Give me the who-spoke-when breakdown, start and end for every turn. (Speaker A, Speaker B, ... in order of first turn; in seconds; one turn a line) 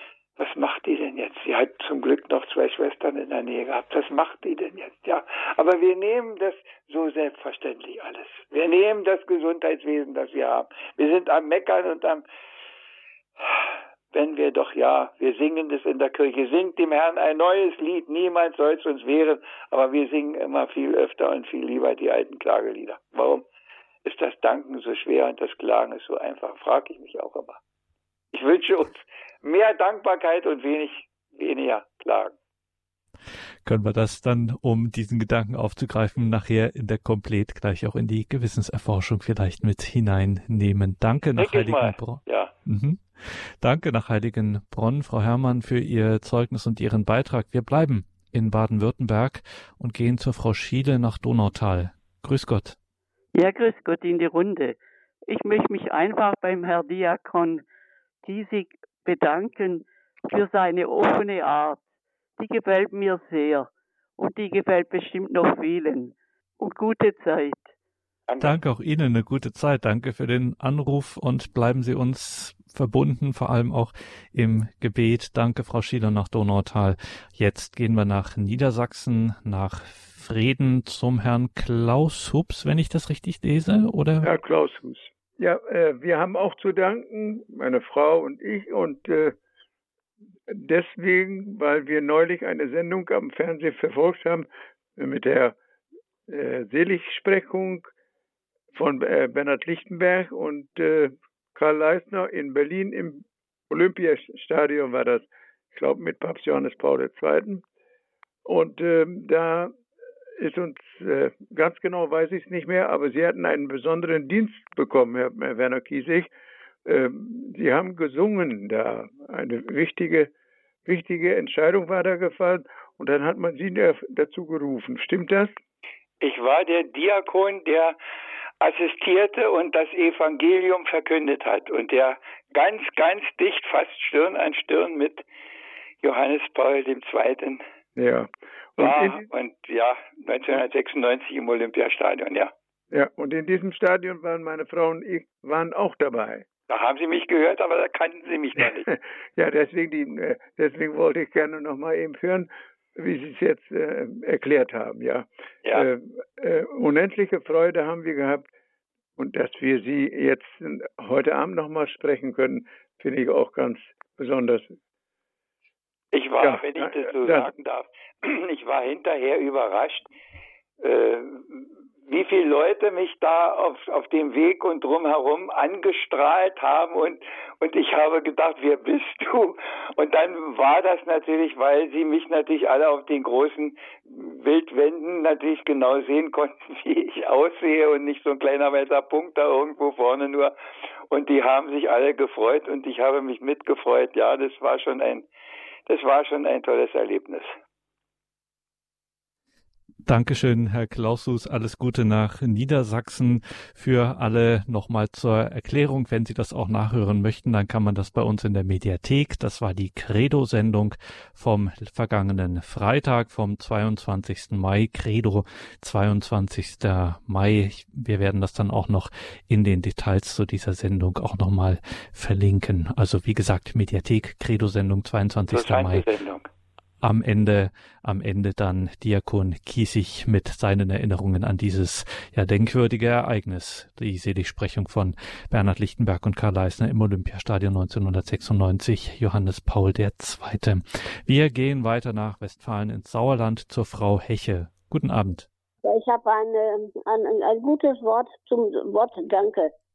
Speaker A: 0.4-12.2
Speaker A: 13.4-23.4
Speaker A: 24.0-27.6
Speaker A: 28.3-32.4
Speaker B: 33.6-52.8
Speaker A: 41.4-42.5
Speaker C: 53.3-57.6
Speaker C: 58.2-61.8
Speaker C: 62.4-67.7
Speaker A: 68.3-68.6
Speaker B: 68.4-84.3
Speaker D: 84.2-89.4
Speaker D: 90.5-95.6
Speaker D: 96.3-97.9
Speaker D: 98.7-107.6
Speaker D: 108.4-109.7
Speaker D: 110.4-116.3
Speaker D: 116.8-120.3
Speaker D: 120.8-125.5
Speaker A: 126.2-128.0
Speaker A: 128.6-135.2
Speaker A: 136.0-137.6
Speaker D: 137.9-139.2
Speaker A: 138.8-142.5
Speaker D: 142.9-146.4
Speaker A: 146.7-148.9
Speaker D: 148.8-158.5
Speaker D: 159.2-164.8
Speaker A: 166.1-170.1
Speaker D: 166.4-167.5
Speaker A: 170.8-190.5
Speaker A: 191.1-195.3
Speaker A: 195.8-197.5
Speaker B: 200.1-226.1
Speaker A: 225.5-226.5
Speaker B: 227.0-245.5
Speaker E: 245.8-249.7